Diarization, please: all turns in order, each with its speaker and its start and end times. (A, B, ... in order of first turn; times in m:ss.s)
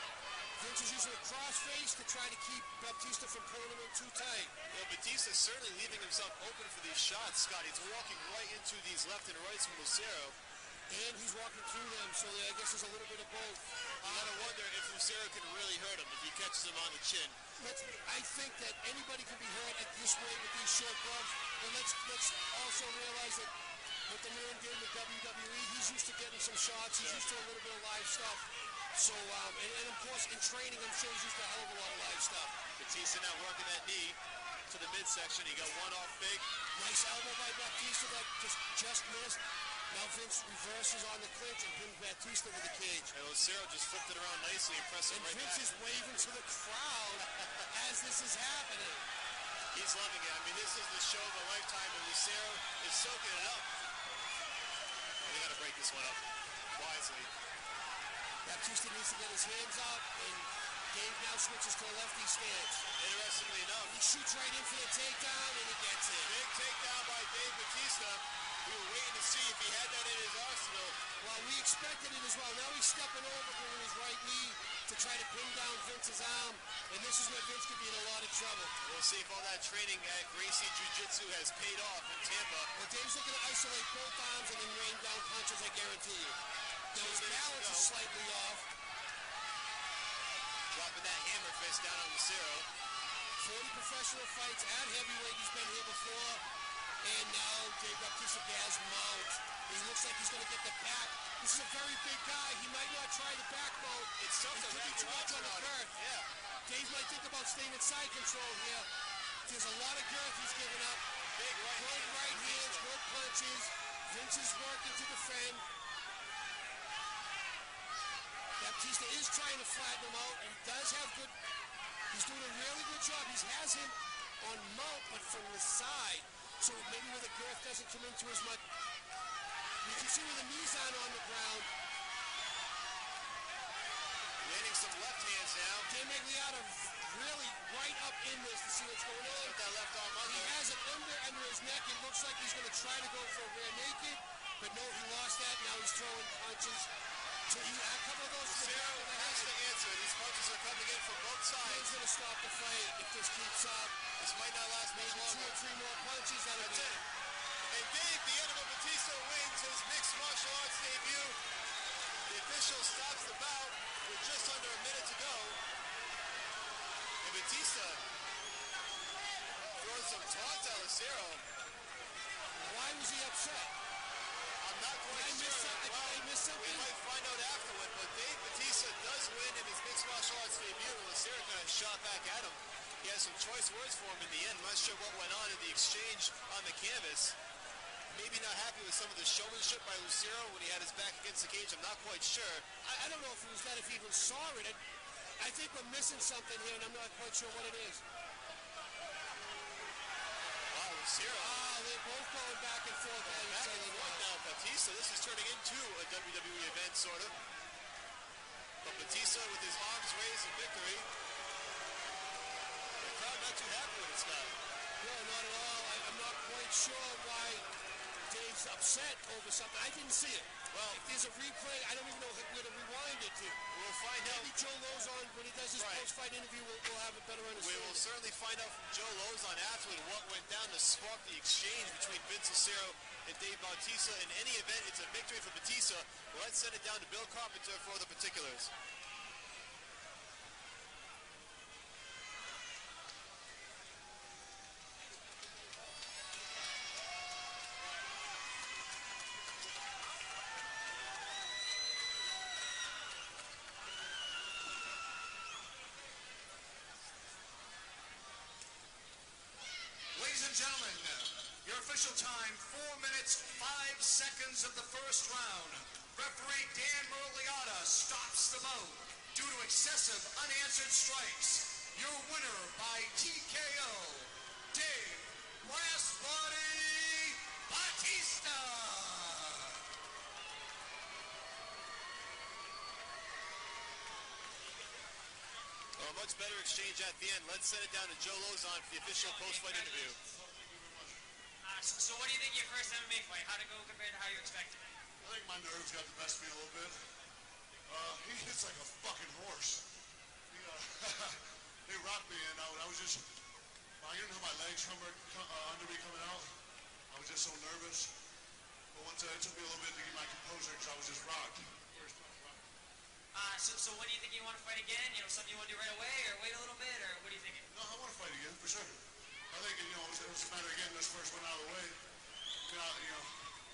0:00.6-0:04.5 A
0:04.7-0:10.4 B
0:10.9-0:14.6 A
0:14.0-0:17.4 B
0:17.6-0:23.5 A
0:24.1-0:32.6 A
0:27.0-0:27.3 B
0:32.8-0:36.5 B
0:36.8-0:43.1 A
0:43.1-0:45.7 B
0:45.1-0:49.1 A
0:49.7-0:53.7 B
0:55.2-0:56.2 B
0:56.8-0:57.3 B
0:58.4-1:02.8 A
1:03.0-1:04.0 B
1:03.9-1:06.4 A
1:06.2-1:11.0 B
1:11.2-1:18.7 A
1:18.8-1:22.7 B
1:22.8-1:26.4 A
1:26.9-1:28.7 A
1:27.0-1:27.9 B
1:30.7-1:32.7 B
1:33.4-1:36.4 A
1:37.0-1:46.0 A
1:44.2-1:46.3 B
1:46.7-1:48.9 A
1:49.5-1:51.0 A
1:51.4-1:52.9 B
1:51.7-1:55.7 A
1:58.6-2:01.4 A
2:02.1-2:08.6 A
2:09.8-2:11.7 A
2:14.4-2:15.9 B
2:15.9-2:19.6 A
2:19.2-2:20.6 B
2:20.2-2:26.9 A
2:27.5-2:29.5 A
2:28.4-2:32.0 B
2:31.6-2:34.0 A
2:34.2-2:35.6 B
2:34.9-2:37.0 A
2:36.5-2:37.0 B
2:37.7-2:41.4 B
2:42.3-2:45.6 B
2:47.2-2:48.0 B
2:49.8-2:51.4 B
2:52.6-2:53.8 A
2:54.6-3:07.4 B
2:55.1-2:56.9 A
3:08.1-3:12.7 B
3:12.8-3:14.8 A
3:15.4-3:18.0 A
3:20.7-3:21.6 B
3:21.4-3:24.3 A
3:23.2-3:27.4 B
3:28.8-3:31.1 B
3:33.0-3:34.6 B
3:35.0-3:37.7 A
3:38.3-3:43.6 A
3:40.7-3:41.0 B
3:43.7-3:44.5 B
3:44.2-3:48.1 A
3:45.8-3:46.1 B
3:47.6-3:58.7 B
4:20.2-4:39.8 C
4:46.0-4:50.2 B
4:49.2-4:50.1 D
4:50.2-4:51.2 E
4:51.6-4:55.0 D
4:55.2-4:57.0 E
4:57.9-4:59.8 E
5:00.5-5:03.3 E
5:04.0-5:06.5 E
5:07.1-5:08.1 E
5:08.9-5:12.6 E
5:13.3-5:17.7 D
5:17.7-5:19.0 E
5:19.5-5:22.0 E
5:22.7-5:23.4 E